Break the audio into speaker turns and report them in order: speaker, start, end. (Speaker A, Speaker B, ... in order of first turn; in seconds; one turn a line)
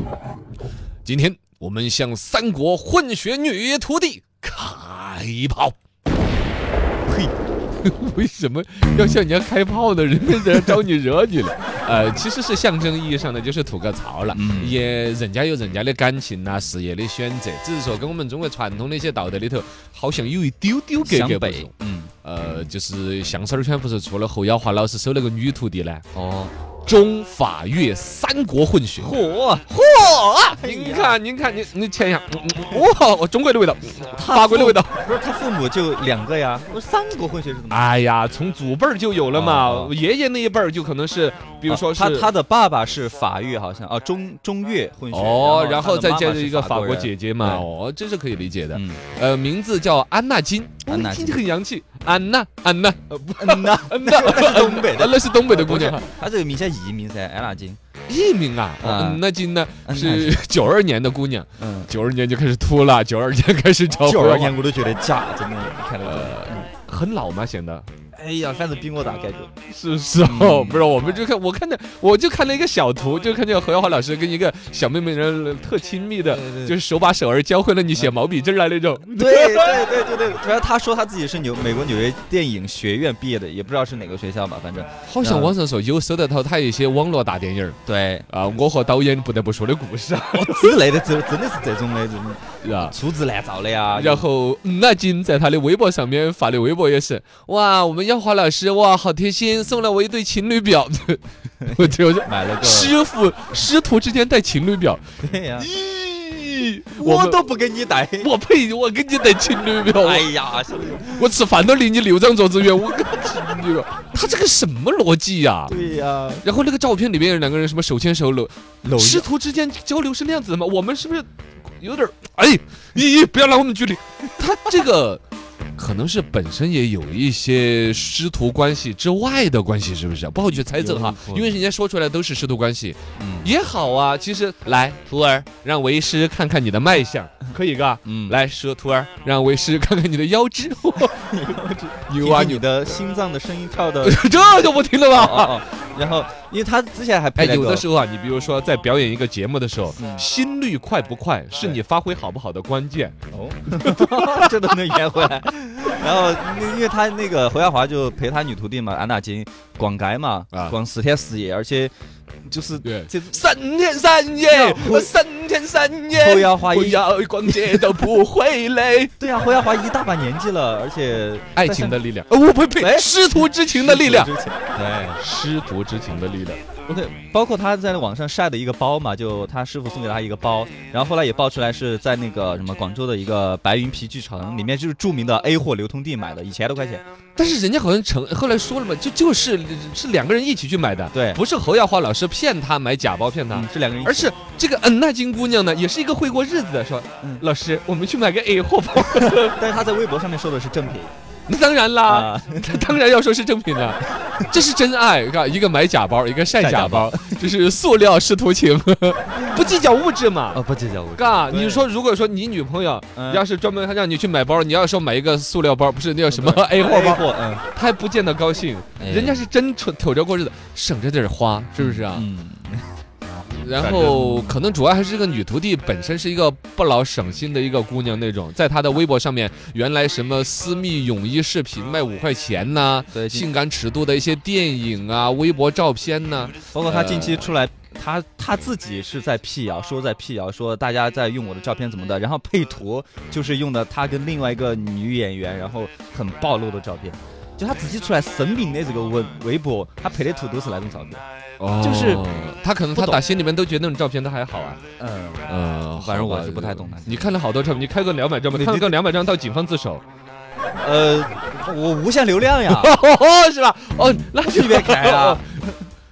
Speaker A: 1.0-5.8
Speaker B: 7.1-7.3
Speaker A: 7.8-21.7
Speaker B: 14.3-14.8
Speaker B: 21.0-22.1
Speaker A: 22.2-26.0
Speaker B: 26.1-26.5
Speaker A: 26.9-35.1
Speaker B: 29.0-29.7
Speaker B: 30.5-31.2
Speaker B: 34.1-37.9
Speaker A: 37.7-42.3
Speaker B: 39.3-39.9
Speaker B: 41.7-47.6
Speaker A: 45.1-56.0
Speaker B: 48.7-49.0
Speaker B: 50.9-51.4
Speaker B: 53.3-57.8
Speaker A: 58.1-64.6
Speaker B: 58.8-59.2
Speaker B: 59.9-60.3
Speaker B: 61.6-61.9
Speaker B: 64.0-66.7
Speaker A: 66.0-67.9
Speaker B: 68.1-69.5
Speaker A: 69.7-79.9
Speaker B: 70.2-71.2
Speaker B: 76.2-76.8
Speaker B: 79.1-85.5
Speaker A: 85.1-90.8
Speaker B: 87.8-88.3
Speaker B: 90.3-94.3
Speaker A: 92.6-93.0
Speaker A: 93.9-105.0
Speaker B: 101.6-102.9
Speaker B: 105.2-105.7
Speaker A: 105.6-107.5
Speaker B: 106.9-108.3
Speaker A: 108.2-110.3
Speaker B: 109.9-111.3
Speaker A: 111.1-115.7
Speaker B: 115.7-116.4
Speaker A: 116.4-121.3
Speaker B: 118.8-119.3
Speaker A: 121.8-125.2
Speaker A: 125.8-141.2
Speaker B: 130.5-131.5
Speaker B: 133.2-133.5
Speaker B: 138.0-138.4
Speaker B: 141.1-144.2
Speaker A: 142.1-142.6
Speaker A: 144.0-145.7
Speaker B: 145.1-147.8
Speaker A: 147.4-153.2
Speaker B: 150.0-150.2
Speaker B: 153.3-161.9
Speaker A: 153.7-155.3
Speaker B: 162.4-163.4
Speaker A: 162.8-169.1
Speaker B: 164.5-165.1
Speaker B: 166.1-167.0
Speaker B: 169.2-172.0
Speaker A: 171.6-174.3
Speaker B: 172.8-175.2
Speaker A: 175.2-176.6
Speaker B: 176.9-187.0
Speaker A: 187.3-199.6
Speaker B: 191.1-191.4
Speaker B: 193.5-194.3
Speaker B: 197.2-197.5
Speaker B: 199.2-201.1
Speaker A: 201.5-210.6
Speaker B: 202.1-202.9
Speaker B: 206.5-207.4
Speaker B: 210.5-211.9
Speaker A: 211.2-222.2
Speaker B: 213.2-213.4
Speaker B: 216.3-217.6
Speaker B: 219.0-219.4
Speaker B: 221.8-222.9
Speaker A: 223.6-237.5
Speaker B: 223.7-224.6
Speaker B: 233.1-233.5
Speaker B: 236.7-251.2
Speaker A: 251.6-254.8
Speaker B: 251.8-252.2
Speaker B: 252.9-253.2
Speaker B: 255.0-257.4
Speaker A: 255.5-260.0
Speaker B: 258.5-259.0
Speaker B: 260.8-263.0
Speaker A: 262.7-265.4
Speaker B: 264.4-265.8